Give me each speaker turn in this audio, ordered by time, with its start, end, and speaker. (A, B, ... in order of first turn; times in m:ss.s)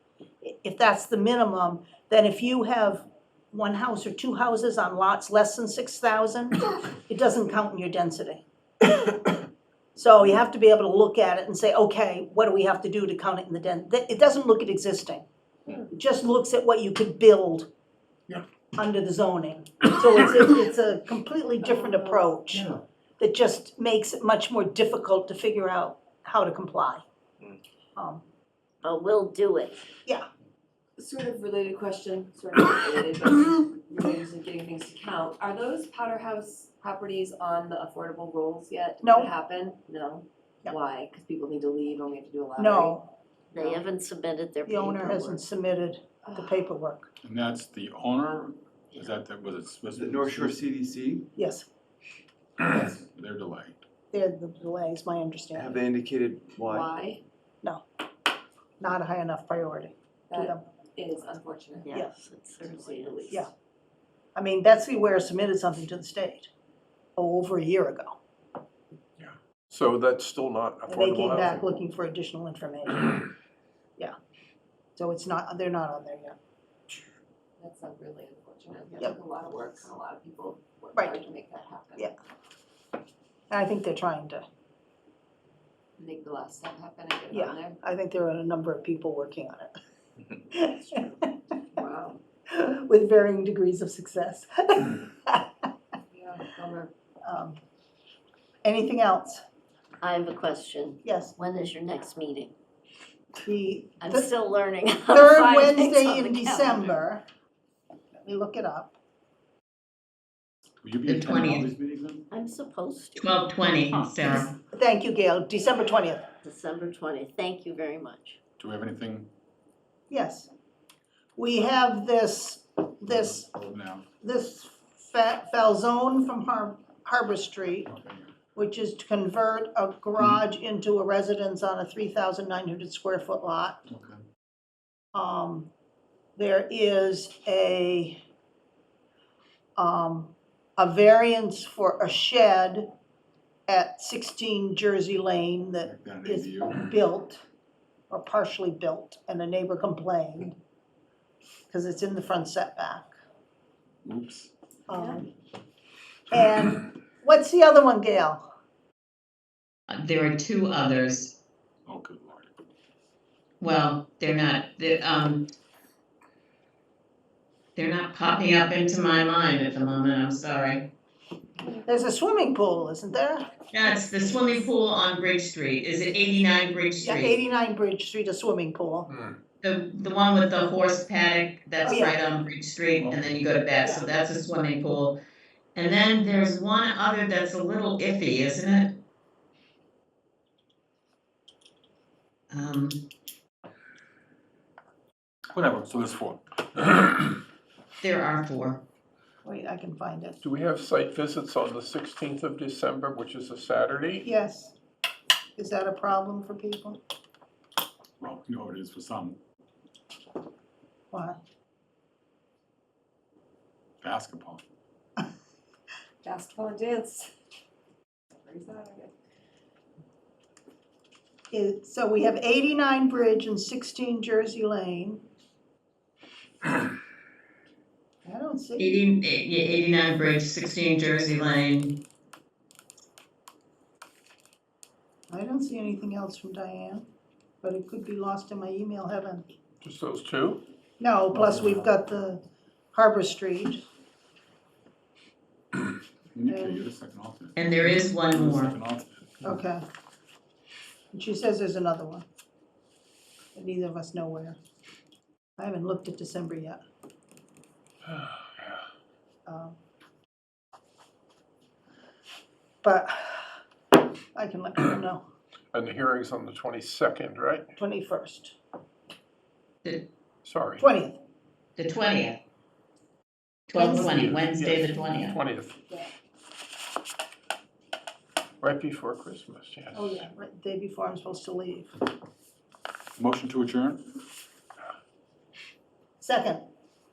0:00.4-0:08.4 A
0:10.0-0:15.2 A
0:15.8-0:17.7 A
0:18.8-0:27.0 A
0:21.6-0:22.3 B
0:28.0-0:28.2 A
0:28.8-0:29.9 C
0:31.0-0:43.0 B
0:39.0-0:39.3 A
0:42.6-0:43.1 A
0:43.5-0:45.4 C
0:43.6-0:43.8 B
0:44.7-0:47.1 A
0:46.3-0:46.7 B
0:47.2-0:50.6 D
0:49.9-0:51.3 E
0:51.4-0:51.7 A
0:52.6-0:53.8 D
0:54.1-0:55.8 A
0:55.5-0:56.9 E
0:56.7-0:57.2 B
0:58.8-1:00.6 A
1:00.3-1:02.0 B
1:01.8-1:03.4 C
1:02.6-1:03.5 B
1:04.4-1:06.5 A
1:07.2-1:08.2 A
1:09.2-1:11.7 F
1:10.9-1:13.2 A
1:15.0-1:16.4 A
1:17.6-1:22.1 B
1:23.5-1:24.4 A
1:26.0-1:27.8 B
1:27.3-1:29.7 A
1:30.4-1:31.4 A
1:31.8-1:32.2 B
1:32.5-1:35.5 A
1:36.1-1:36.9 B
1:37.2-1:37.6 A
1:38.6-1:39.4 A
1:40.0-1:42.5 C
1:41.0-1:41.3 A
1:43.4-1:44.3 A
1:44.0-1:46.9 C
1:45.1-1:47.2 A
1:48.2-1:49.0 A
1:50.8-1:52.3 D
1:51.1-1:51.7 G
1:52.3-1:53.4 C
1:53.2-1:54.5 G
1:54.7-1:56.3 A
1:56.4-1:58.4 C
1:58.6-1:59.3 D
2:00.1-2:00.5 A
2:01.4-2:03.5 A
2:03.1-2:04.0 D
2:04.2-2:07.9 A
2:07.9-2:08.3 D
2:08.6-2:13.8 A
2:13.9-2:14.2 D
2:15.1-2:15.7 A
2:16.4-2:18.2 A
2:19.8-2:22.9 A
2:23.7-2:27.4 A
2:25.8-2:26.8 D
2:28.1-2:30.6 A
2:31.7-2:33.1 A
2:34.0-2:34.5 D
2:34.9-2:35.2 A
2:36.3-2:38.4 A
2:39.9-2:41.4 G
2:41.9-2:42.6 D
2:43.6-2:45.5 G
2:47.8-2:50.9 G
2:51.8-2:53.5 A
2:53.7-2:57.4 G
2:57.0-2:59.1 A
2:59.1-2:59.4 F
2:59.6-3:05.2 G
3:01.8-3:02.2 A
3:03.0-3:03.4 D
3:05.8-3:09.0 G
3:12.5-3:13.0 G
3:15.5-3:17.4 D
3:18.0-3:18.8 G
3:19.4-3:20.4 A
3:20.4-3:24.2 F
3:24.2-3:24.8 A
3:25.6-3:27.0 A
3:28.2-3:29.4 D
3:31.1-3:31.4 A
3:34.0-3:34.6 D
3:36.2-3:37.3 B
3:38.4-3:39.1 B
3:41.5-3:45.2 A
3:48.2-3:49.0 A
3:48.8-3:52.0 G
3:55.3-3:57.1 A
3:57.6-3:59.4 A
3:59.8-4:00.6 F
4:01.0-4:02.4 A
4:01.3-4:01.9 D
4:02.9-4:03.8 A
4:06.3-4:09.6 D
4:06.5-4:06.8 A
4:07.6-4:08.8 G
4:09.4-4:09.8 A
4:11.1-4:12.3 A
4:13.6-4:14.6 A
4:15.6-4:16.8 A
4:19.5-4:19.8 A
4:22.8-4:23.5 A
4:24.4-4:25.2 A
4:25.7-4:27.7 F
4:27.8-4:28.6 A
4:30.4-4:30.8 F
4:30.8-4:31.2 A
4:31.8-4:32.4 G
4:33.7-4:35.4 G
4:33.8-4:35.8 F
4:38.6-4:40.2 F
4:39.9-4:41.9 A
4:43.2-4:44.0 D
4:46.2-4:46.6 A